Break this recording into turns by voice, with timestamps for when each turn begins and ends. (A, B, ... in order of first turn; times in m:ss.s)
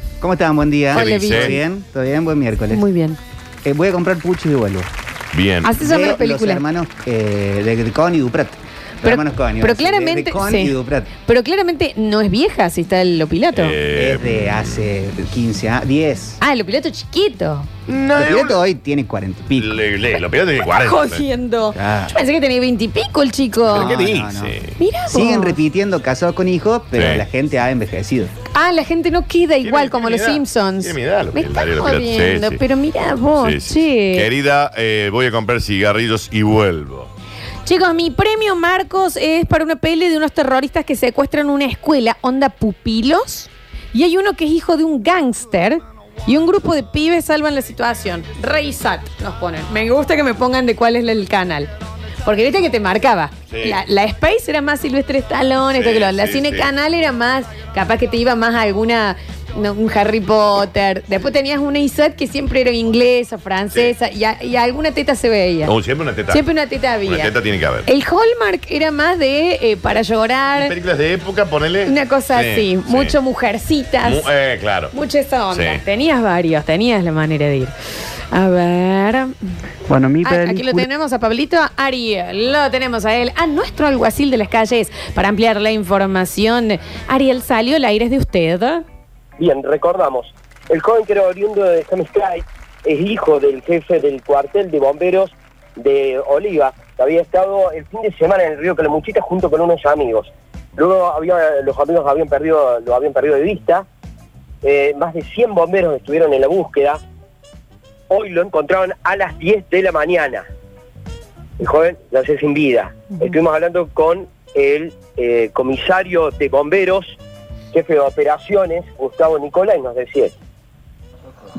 0:00.2-0:02.8 A
0:00.9-0:01.6 B
0:00.9-0:01.6 C
0:02.7-0:03.2 C
0:03.7-0:04.9 A
0:05.3-0:05.8 B
0:05.6-0:06.6 C
0:05.8-0:11.1 A
0:09.0-0:13.8 C
0:13.5-0:14.9 B
0:14.0-0:16.4 A
0:16.4-0:17.7 C
0:17.9-0:18.6 B
0:18.2-0:19.7 A
0:19.5-0:21.2 B
0:20.6-0:24.0 C
0:21.8-0:22.1 A
0:23.6-0:24.8 B
0:23.9-0:24.5 A
0:24.8-0:25.6 C
0:25.1-0:28.3 A
0:26.9-0:27.2 B
0:28.5-0:34.3 C
0:29.6-0:32.6 B
0:33.4-0:37.1 B
0:37.6-0:51.7 C
0:52.2-1:05.7 C
0:53.5-0:53.8 B
0:55.7-0:56.7 B
1:05.7-1:06.4 B
1:06.3-1:07.3 C
1:07.0-1:07.9 B
1:07.9-1:10.7 C
1:10.6-1:13.2 B
1:11.8-1:14.3 C
1:14.0-1:14.9 B
1:14.9-1:17.7 C
1:15.5-1:15.8 B
1:18.3-1:19.3 C
1:20.2-1:28.8 C
1:29.4-1:43.8 D
1:44.6-1:47.0 D
1:48.1-1:50.5 D
1:51.6-1:57.2 D
1:57.7-2:00.3 D